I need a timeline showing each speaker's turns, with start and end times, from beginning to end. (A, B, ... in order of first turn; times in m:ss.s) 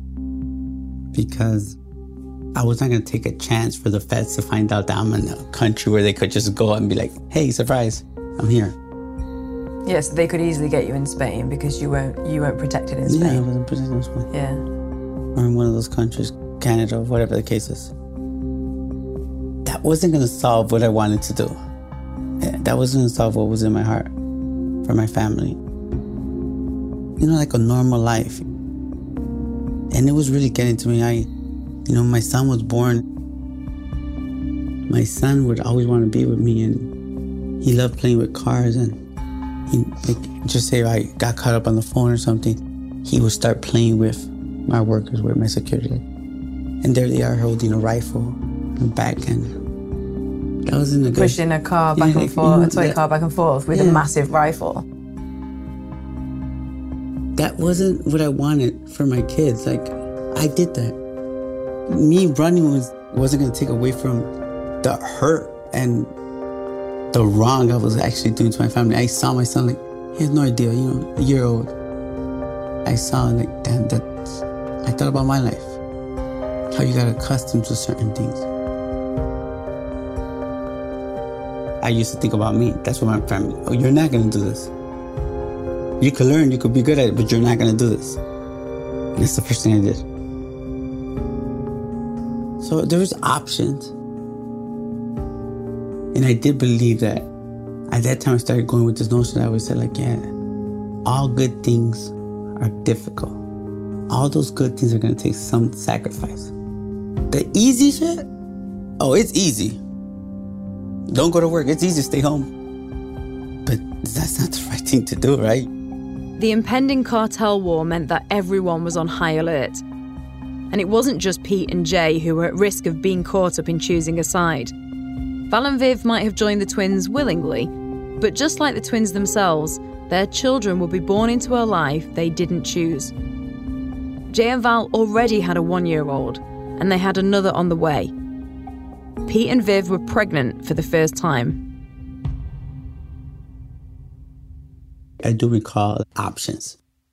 0:01.1-0:01.8 A
0:02.5-0:08.8 A
0:09.8-0:13.4 B
0:13.0-0:14.3 A
0:14.3-0:14.6 B
0:15.3-0:17.9 A
0:19.6-0:21.6 A
0:22.4-0:24.1 A
0:24.8-0:25.6 A
0:27.2-0:28.4 A
0:29.9-0:31.3 A
0:31.8-0:33.0 A
0:34.9-0:36.9 A
0:37.6-0:39.0 A
0:39.7-0:46.0 A
0:46.8-0:49.5 A
0:50.6-0:51.4 A
0:51.1-0:54.9 B
0:51.9-0:53.0 A
0:53.7-0:54.1 A
0:57.4-1:01.0 A
1:01.9-1:06.1 A
1:07.1-1:11.7 A
1:12.8-1:15.8 A
1:16.7-1:18.5 A
1:21.8-1:24.7 A
1:26.0-1:28.2 A
1:29.1-1:30.0 A
1:32.6-1:33.9 A
1:36.1-1:37.3 A
1:37.9-1:40.3 A
1:41.0-1:43.4 A
1:44.1-1:46.5 A
1:47.3-1:48.2 A
1:49.0-1:49.8 A
1:51.1-1:52.5 A
1:53.6-1:55.7 A
1:56.4-1:59.8 C
2:00.7-2:04.7 C
2:05.5-2:13.1 C
2:14.3-2:18.1 C
2:19.2-2:21.6 C
2:25.2-2:26.8 A